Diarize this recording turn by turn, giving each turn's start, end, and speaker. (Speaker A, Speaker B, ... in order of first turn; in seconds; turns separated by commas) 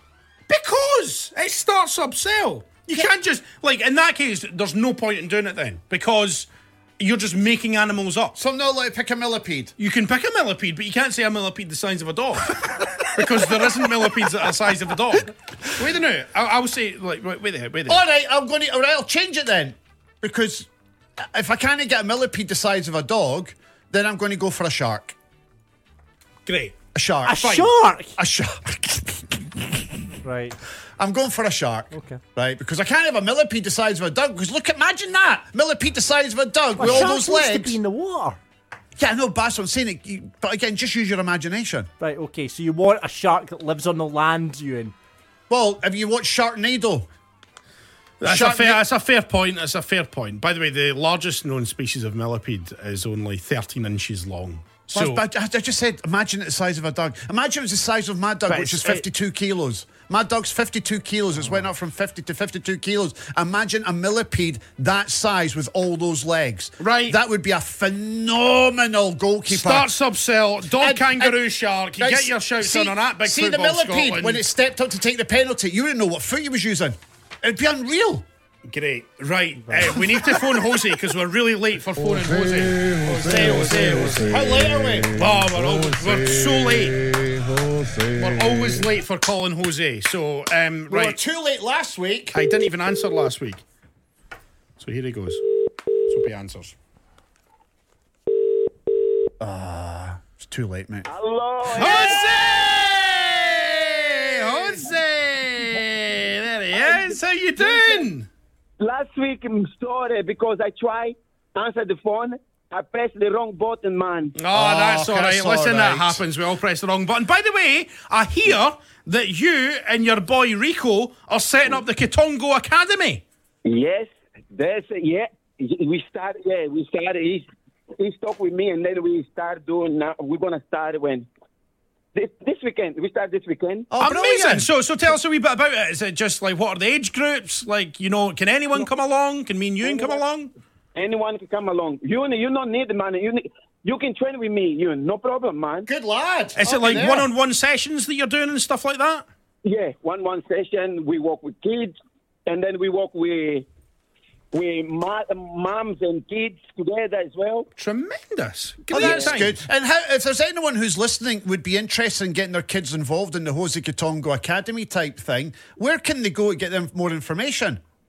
Speaker A: 0.5-8.4, Speaker B: 8.3-9.7, Speaker A: 9.8-18.0, Speaker B: 17.9-25.1, Speaker A: 26.4-26.8, Speaker B: 26.9-30.1, Speaker C: 27.2-28.1, Speaker A: 27.3-27.7, Speaker C: 30.2-30.6, Speaker B: 31.0-37.8, Speaker C: 31.9-32.2, Speaker C: 36.8-38.4, Speaker B: 39.0-41.9, Speaker C: 42.0-44.9, Speaker B: 45.5-47.1, Speaker A: 48.2-55.2, Speaker B: 48.2-48.8, Speaker B: 54.9-69.9, Speaker A: 58.5-59.0, Speaker A: 66.8-67.2, Speaker A: 69.5-74.4, Speaker B: 70.7-71.4, Speaker B: 72.0-78.2, Speaker A: 78.7-84.4, Speaker B: 83.3-85.2, Speaker A: 85.1-87.0, Speaker A: 88.0-91.2, Speaker B: 90.9-92.4, Speaker A: 92.3-93.6, Speaker A: 94.8-95.4, Speaker A: 96.0-96.8, Speaker B: 99.4-101.1, Speaker D: 101.1-102.3, Speaker A: 101.7-108.3, Speaker B: 103.2-104.3, Speaker D: 106.8-108.1, Speaker D: 108.8-114.3, Speaker A: 114.3-123.2, Speaker B: 114.5-116.2, Speaker D: 123.6-127.5, Speaker D: 128.0-131.3, Speaker D: 132.1-133.9, Speaker B: 133.9-134.7, Speaker A: 134.0-140.5, Speaker D: 139.8-140.2, Speaker D: 140.9-145.9, Speaker B: 145.9-147.3, Speaker A: 146.6-149.2, Speaker D: 149.6-151.9, Speaker D: 152.4-153.7, Speaker D: 154.5-157.7, Speaker A: 157.8-159.6, Speaker B: 158.9-167.8, Speaker D: 158.9-159.3